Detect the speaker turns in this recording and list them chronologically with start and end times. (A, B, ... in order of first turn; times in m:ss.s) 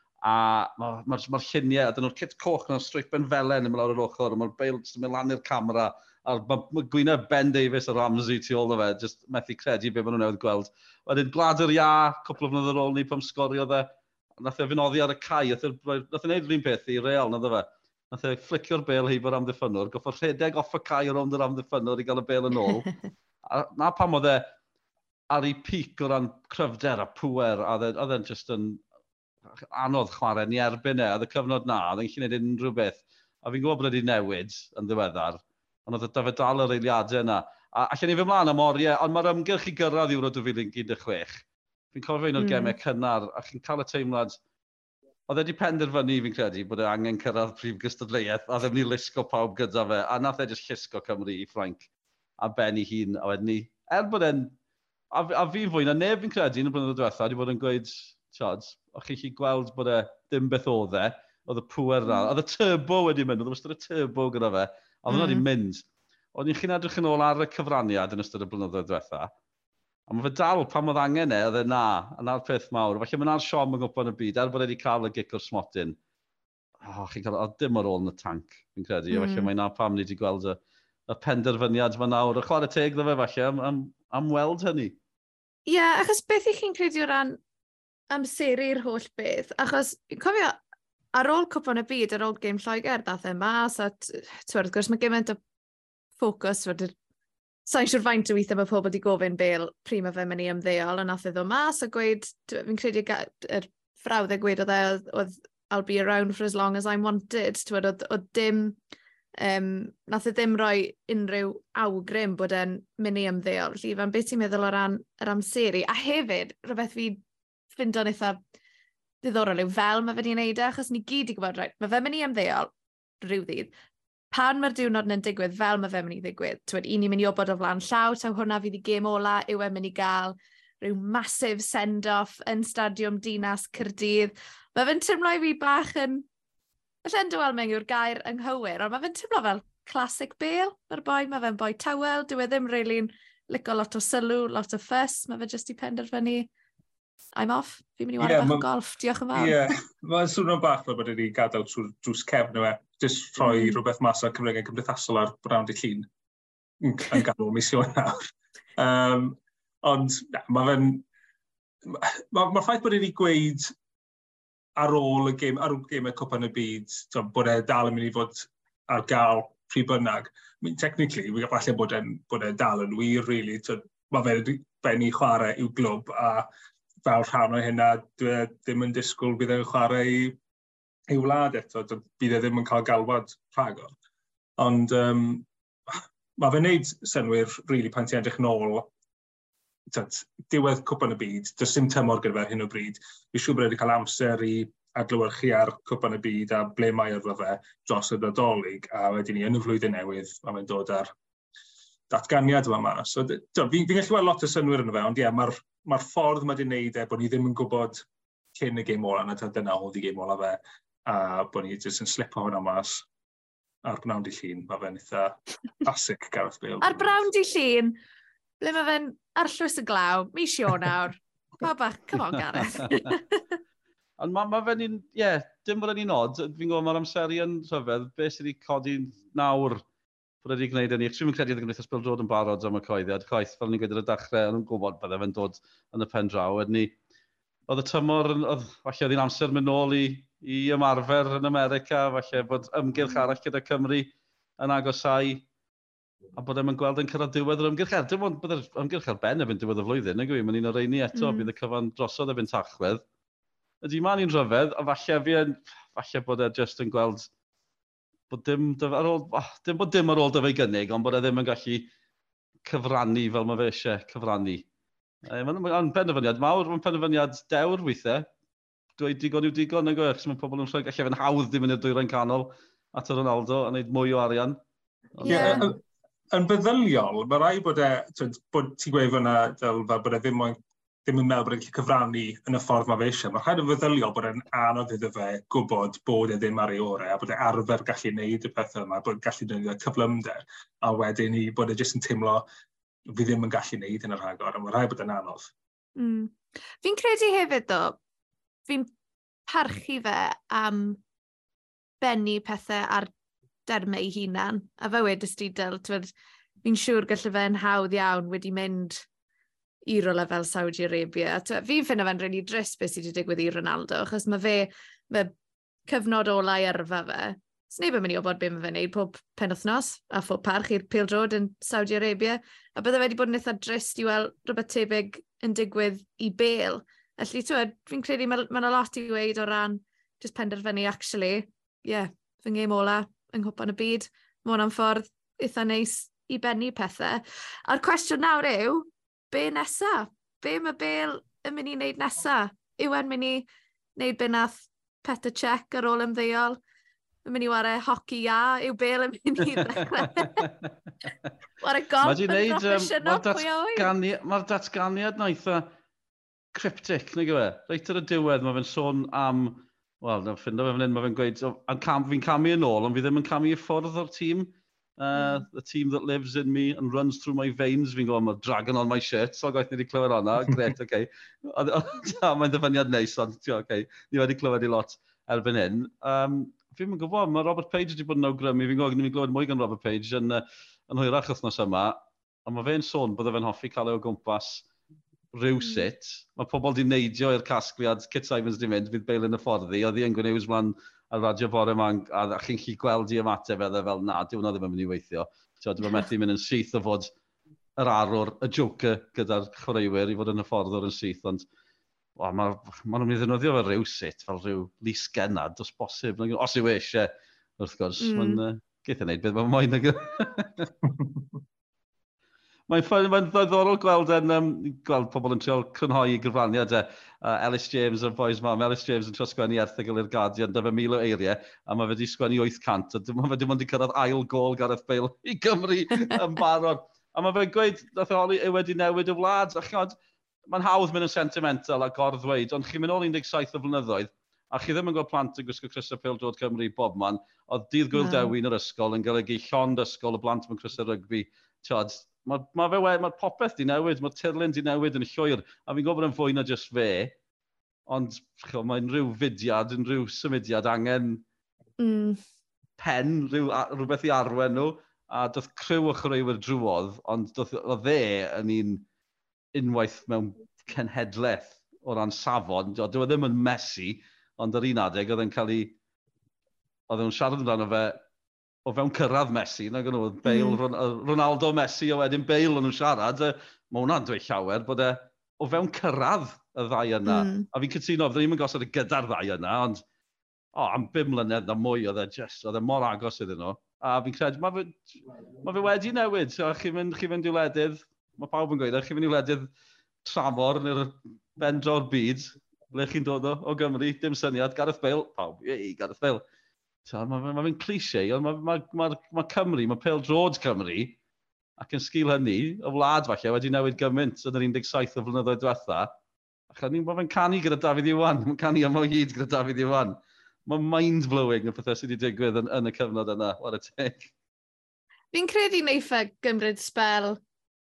0:00.2-0:22.9 A
0:23.5-0:24.5 A
0:25.3-0:28.8 A
0:29.6-0:44.4 A
0:42.4-0:42.8 B
0:45.3-0:54.6 A
0:55.1-1:09.3 A
1:05.1-1:05.4 B
1:10.1-1:16.0 A
1:16.8-1:25.0 A
1:19.1-1:19.5 B
1:25.7-1:27.4 B
1:28.1-1:30.6 B
1:31.1-1:35.4 B
1:36.2-1:36.9 B
1:37.6-1:48.8 B
1:49.4-1:57.2 B
1:57.7-1:58.4 B
1:59.2-2:03.7 B
2:04.3-2:16.2 B
2:17.0-2:26.5 B
2:27.3-2:29.8 B
2:28.2-2:28.7 C
2:29.3-2:36.1 C
2:33.4-2:33.8 B
2:36.8-2:41.0 C
2:41.8-2:43.7 C
2:44.8-2:56.5 C
2:57.0-3:00.4 C
3:01.1-3:03.9 C
3:04.6-3:08.9 C
3:09.9-3:21.1 C
3:22.1-3:33.0 C
3:33.8-3:37.3 C
3:36.8-3:38.0 B
3:38.6-3:43.4 B
3:44.2-3:49.8 A
3:50.4-3:56.9 A
3:57.7-4:05.4 A
4:06.4-4:13.0 A
4:11.1-4:11.5 B
4:13.8-4:17.3 A
4:18.3-4:21.9 A
4:22.6-4:24.6 A
4:25.2-4:28.3 A
4:29.0-4:34.6 A
4:35.2-4:35.6 A
4:35.2-4:35.7 B
4:35.3-4:35.8 C
4:36.3-4:52.4 C
4:53.1-4:55.5 C
4:56.0-4:58.0 B
4:59.5-5:01.0 B
5:02.0-5:03.1 B
5:03.6-5:06.1 B
5:06.6-5:09.0 B
5:09.9-5:15.3 B
5:15.9-5:46.6 B
5:47.2-5:50.5 B
5:51.6-5:53.9 B
5:52.0-5:55.7 A
5:56.5-6:24.6 A
6:05.1-6:05.4 B
6:25.3-6:37.1 A
6:37.8-6:41.4 A
6:42.2-6:50.7 A
6:48.0-6:48.4 B
6:52.7-7:09.9 A
7:10.5-7:27.1 A
7:17.9-7:18.3 B
7:27.9-7:31.2 A
7:31.8-7:32.2 B
7:32.8-7:38.8 A
7:39.5-7:45.8 A
7:46.9-7:48.0 A
7:48.6-7:59.8 A
7:50.2-7:50.6 B
7:57.0-7:57.5 B
8:00.5-8:09.5 A
8:10.0-8:16.2 A
8:16.8-8:21.0 A
8:21.6-8:25.9 A
8:26.5-8:34.1 A
8:35.1-8:37.2 B